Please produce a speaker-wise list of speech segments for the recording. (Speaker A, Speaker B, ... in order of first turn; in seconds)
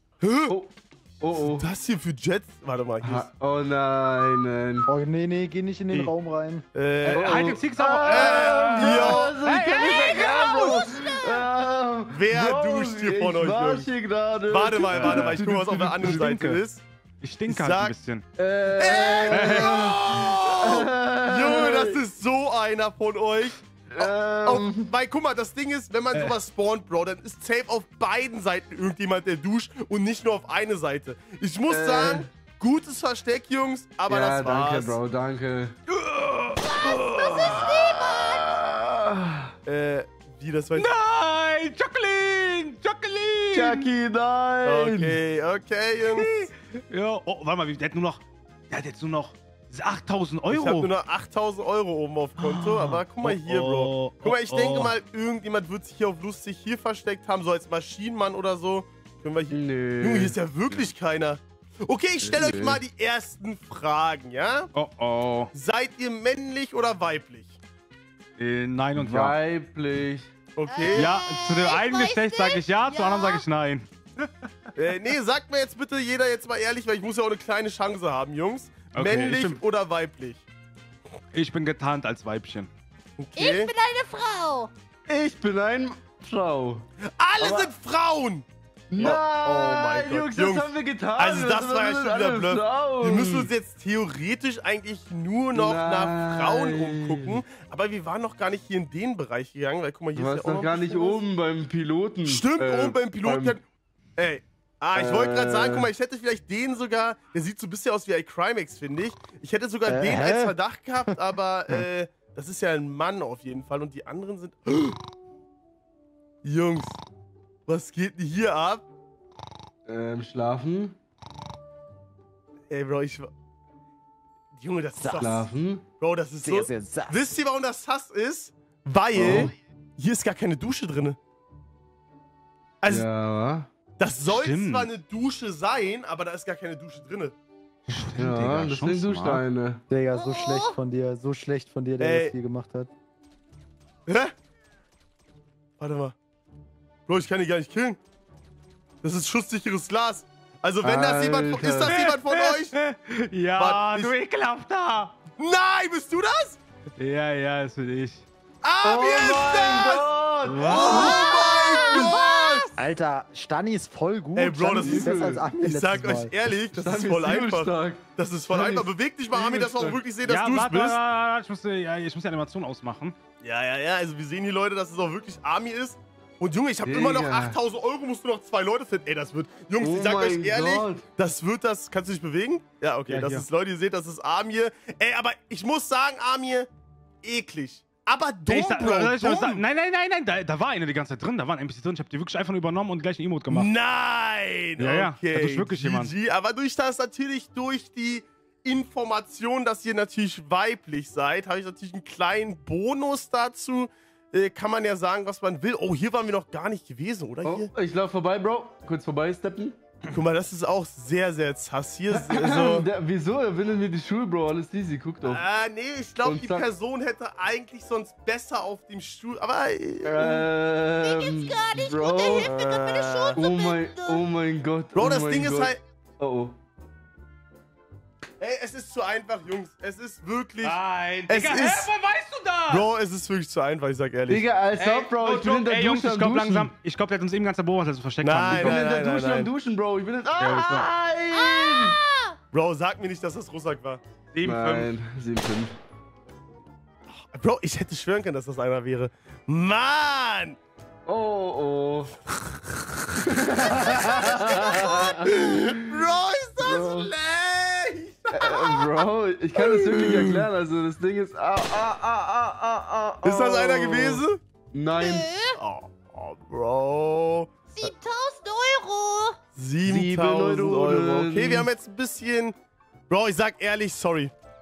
Speaker A: 0.2-0.5, 1.4-3.3, 6.7-9.3, 12.1-13.9, 14.5-16.8, 17.5-17.9, 18.8-35.0, 39.6-40.9, 44.6-46.4, 50.5-64.7, 65.5-67.5, 70.5-71.1, 74.7-80.4, 83.2-83.7, 87.2-88.5, 89.0-101.2, 102.2-103.6, 104.2-115.0, 116.4-117.0, 117.7-118.8, 122.7-123.3, 124.5-131.2, 132.8-133.1, 134.0-137.3, 142.0-142.3, 144.1-144.3, 145.8-146.1, 147.1-148.0, 149.0-152.7, 153.6-154.1, 155.4-156.6, 158.6-162.7, 164.3-171.0, 173.4-186.7, 187.2-189.6, 193.5-207.7, 210.1-212.9, 215.2-220.4, 222.3-223.4, 224.9-225.8, 228.4-231.9, 232.7-234.5, 238.2-239.5, 242.5-244.0, 247.3-250.6, 252.3-258.9, 259.5-260.4, 263.2-264.4, 265.6-267.9, 269.5-272.6, 273.1-274.3
Speaker B: 0.5-1.7, 3.0-4.9, 7.0-15.7, 18.4-22.0, 23.9-24.9, 31.7-32.3, 34.1-35.7, 37.4-39.5, 43.5-45.2, 59.5-60.4, 62.2-62.8, 68.9-70.3, 85.1-86.8, 87.4-87.7, 88.9-93.5, 95.5-97.4, 100.1-103.6, 104.9-105.9, 119.8-121.0, 125.2-125.8, 129.1-129.5, 132.9-133.7, 138.2-139.8, 150.8-151.9, 158.8-161.4, 164.8-165.4, 166.7-170.0, 176.8-177.6, 179.8-181.1, 207.4-209.8, 212.1-215.4, 216.2-216.7, 220.0-222.6, 223.3-226.5, 234.3-236.7, 238.4-242.0, 244.4-245.8, 251.1-252.1, 253.2-255.9, 256.6-257.1, 258.3-265.3, 269.8-271.7
Speaker C: 4.8-6.6, 109.8-110.5, 125.0-125.2, 126.4-127.2, 139.9-142.9, 162.8-166.3
Speaker D: 7.0-10.9, 14.9-16.6, 17.2-18.2, 19.3-20.0, 35.9-37.7, 40.8-43.9, 46.1-50.9, 52.4-54.9, 64.7-65.5, 68.4-69.4, 70.9-74.3, 78.9-79.6, 81.3-82.7, 134.3-134.9, 137.9-139.4, 151.8-155.2, 157.0-158.2, 160.4-161.2, 170.2-173.2, 183.1-183.4, 188.5-193.7, 194.8-196.1, 230.6-232.8, 234.8-238.8, 240.4-240.9, 244.3-244.9
Speaker E: 9.7-11.5, 36.6-38.6, 70.7-73.4, 83.3-84.7, 140.1-140.8, 160.8-162.7, 220.9-224.2, 241.3-242.3, 254.3-254.7, 265.0-265.6, 267.7-269.4